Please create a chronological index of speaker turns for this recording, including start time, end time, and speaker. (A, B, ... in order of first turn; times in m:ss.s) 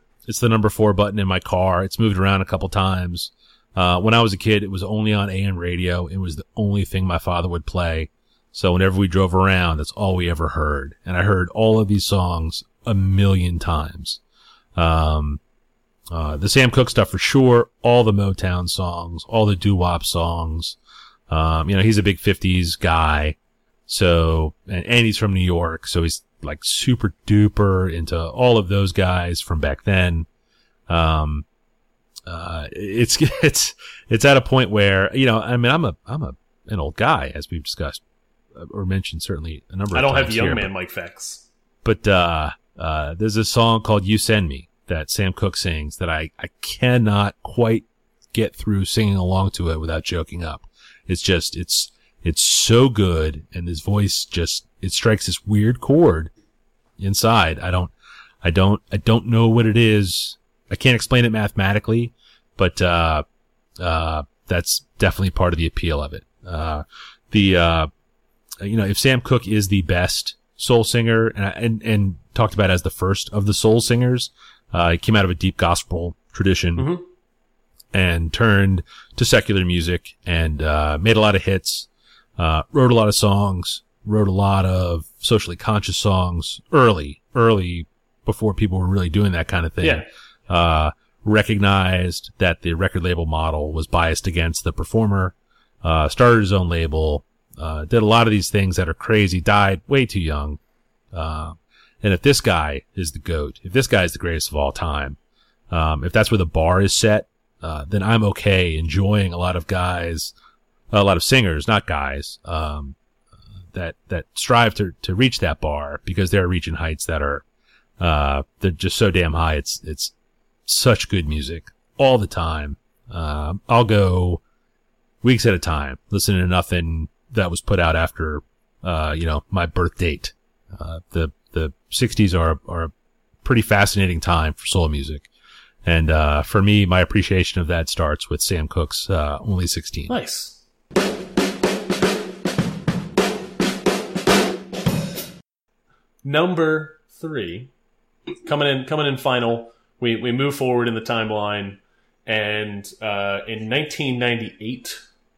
0:00.3-0:14.2 A
0:14.8-0:15.4 A
0:16.1-0:20.8 A
0:21.3-0:30.3 A
0:30.9-0:31.5 A
0:32.3-0:38.0 A
0:38.5-0:40.7 A
0:39.9-0:41.5 B
0:41.8-0:56.3 A
0:57.0-1:03.2 A
1:03.8-1:07.9 A
1:08.6-1:16.9 A
1:16.8-1:17.0 B
1:17.9-1:40.6 A
1:29.8-1:30.1 B
1:41.1-1:45.2 A
1:45.7-1:50.3 A
1:50.9-1:53.0 A
1:53.7-1:57.4 A
1:58.0-2:00.1 A
2:00.7-2:04.4 A
2:05.2-2:12.9 A
2:13.4-2:15.3 A
2:15.8-2:20.2 A
2:20.1-2:20.6 B
2:26.2-2:27.7 B
2:28.4-2:35.0 B